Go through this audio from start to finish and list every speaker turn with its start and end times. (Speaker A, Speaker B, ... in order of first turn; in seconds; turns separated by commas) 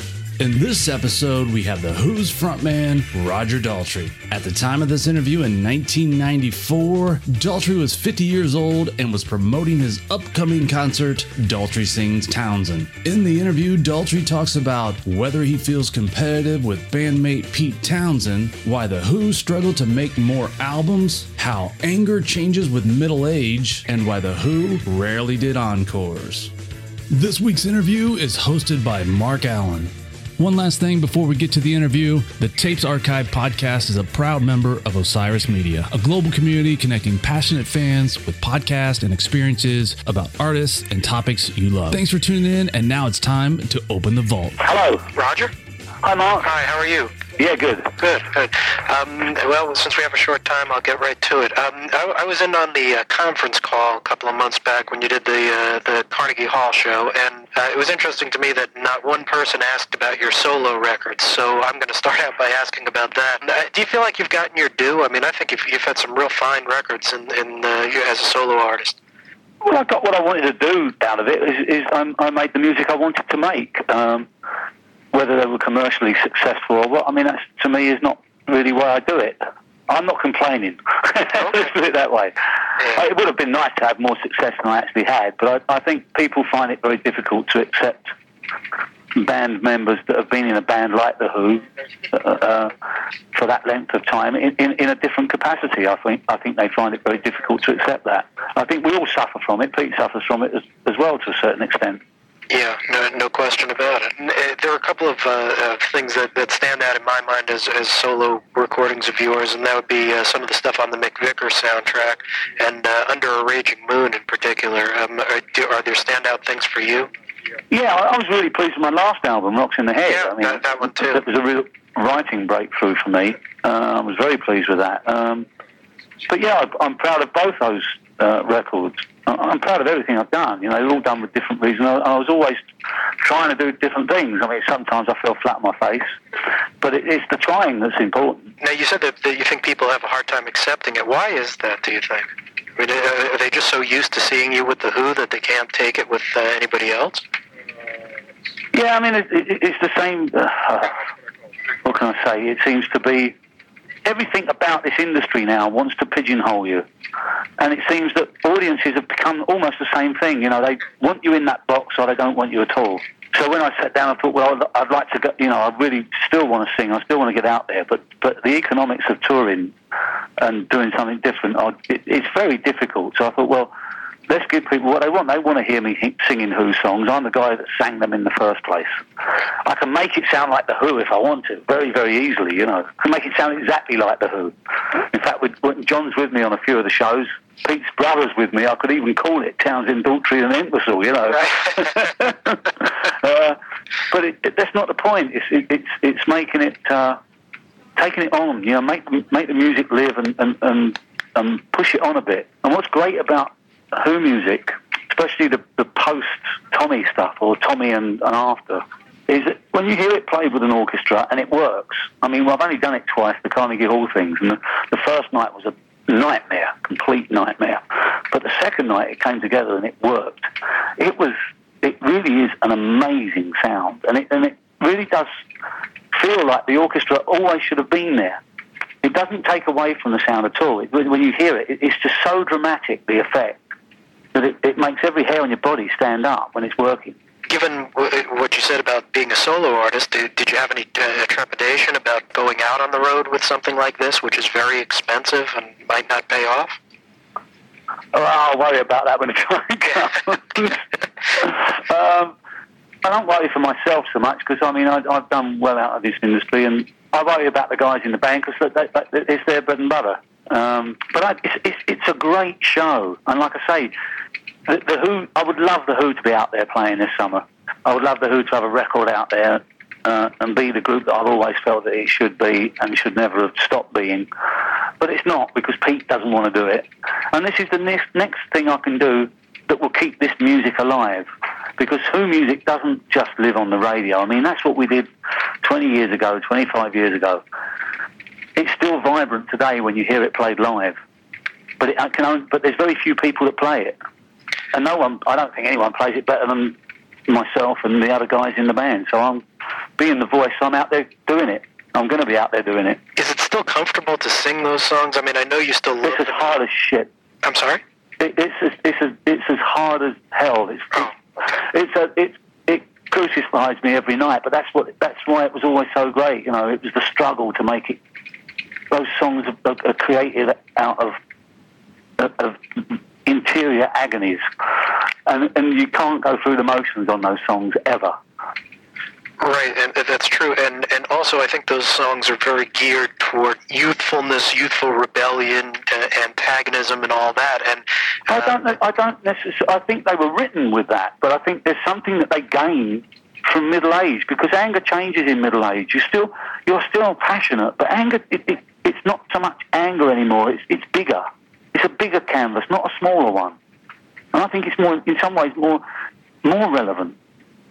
Speaker A: 0.4-26.5, Speaker A: 27.1-44.6, Speaker B: 44.6-45.1, Speaker C: 45.1-45.5, Speaker B: 46.0-46.5, Speaker C: 46.4-47.2, Speaker B: 47.4-47.9, Speaker C: 48.0-69.0, Speaker B: 69.6-74.3, Speaker B: 75.1-82.3, Speaker C: 81.3-81.7, Speaker C: 82.8-83.0, Speaker B: 82.9-88.1, Speaker B: 89.1-92.8, Speaker B: 93.3-102.0, Speaker C: 102.5-117.1, Speaker B: 117.7-125.5, Speaker C: 120.0-121.2, Speaker B: 126.3-132.6, Speaker B: 133.2-136.1, Speaker B: 136.8-138.5, Speaker C: 138.6-147.2, Speaker B: 148.7-151.0, Speaker B: 151.8-153.3, Speaker B: 154.0-156.8, Speaker B: 157.6-169.7, Speaker B: 170.4-173.7, Speaker B: 174.3-178.9, Speaker B: 179.6-193.6, Speaker C: 191.2-191.9, Speaker B: 194.1-197.2, Speaker B: 197.9-225.3, Speaker B: 226.1-228.4, Speaker B: 229.0-233.6, Speaker B: 234.3-237.1, Speaker C: 237.5-246.8, Speaker B: 248.1-250.8, Speaker B: 251.3-252.3, Speaker B: 253.0-263.9, Speaker B: 264.7-274.3, Speaker B: 275.0-285.1, Speaker B: 285.6-287.4, Speaker B: 288.6-290.9, Speaker B: 291.8-293.9, Speaker B: 294.7-296.8, Speaker B: 297.3-299.4, Speaker B: 300.0-303.0, Speaker C: 303.1-306.6, Speaker B: 306.0-307.1, Speaker C: 307.4-307.8, Speaker B: 308.2-318.0, Speaker B: 318.9-321.2, Speaker B: 322.2-324.4, Speaker B: 325.2-328.1, Speaker C: 329.4-338.7, Speaker B: 338.3-353.6, Speaker B: 354.3-355.8, Speaker B: 356.4-357.1